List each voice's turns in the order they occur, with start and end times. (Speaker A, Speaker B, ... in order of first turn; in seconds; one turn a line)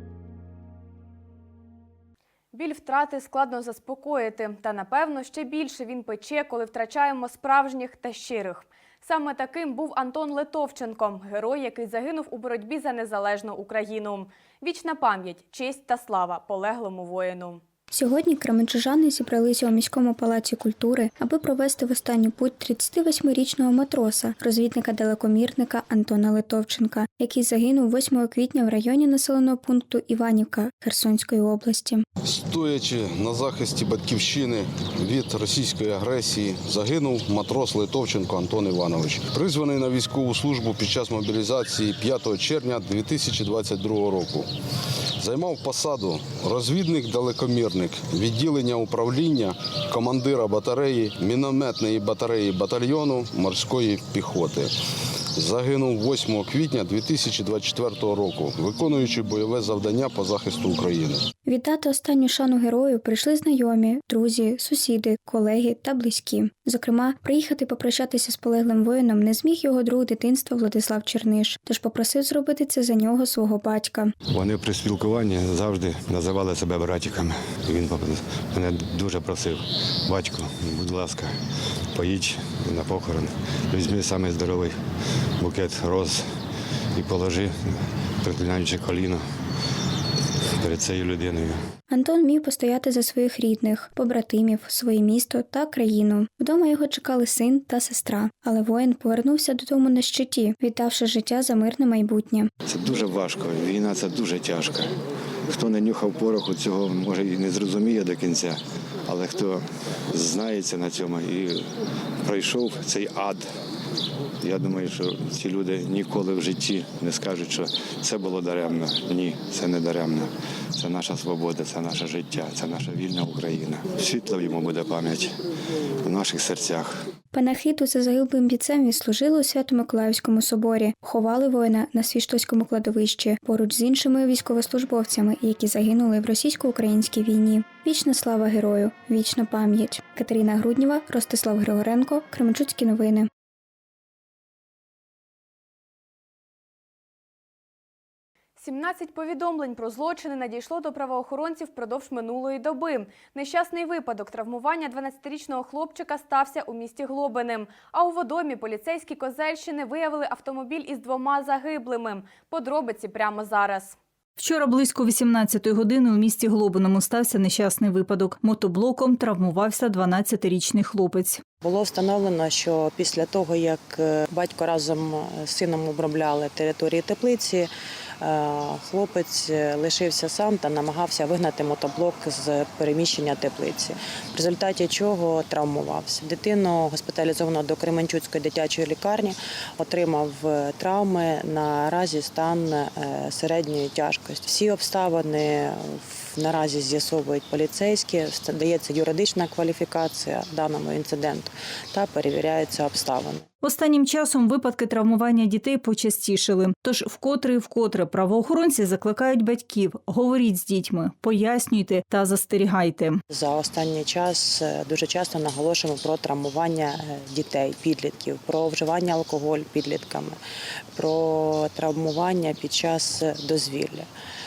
Speaker A: 2.5-17.6
Speaker B: 17.9-32.0
Speaker C: 32.2-44.5
Speaker C: 45.2-54.7
Speaker C: 55.3-61.2
Speaker B: 61.4-74.1
Speaker D: 74.3-84.8
Speaker D: 85.4-89.3
Speaker D: 90.5-91.6
Speaker B: 91.9-102.5
Speaker D: 102.7-104.9
Speaker D: 105.4-111.7
Speaker D: 112.2-113.5
Speaker D: 114.4-125.4
Speaker D: 126.0-127.0
Speaker B: 127.3-143.3
Speaker A: 148.6-163.9
Speaker E: 164.4-171.4
Speaker F: 171.6-177.7
Speaker F: 178.2-203.4
Speaker E: 203.6-213.2
Speaker F: 213.3-220.4
Speaker F: 220.9-224.1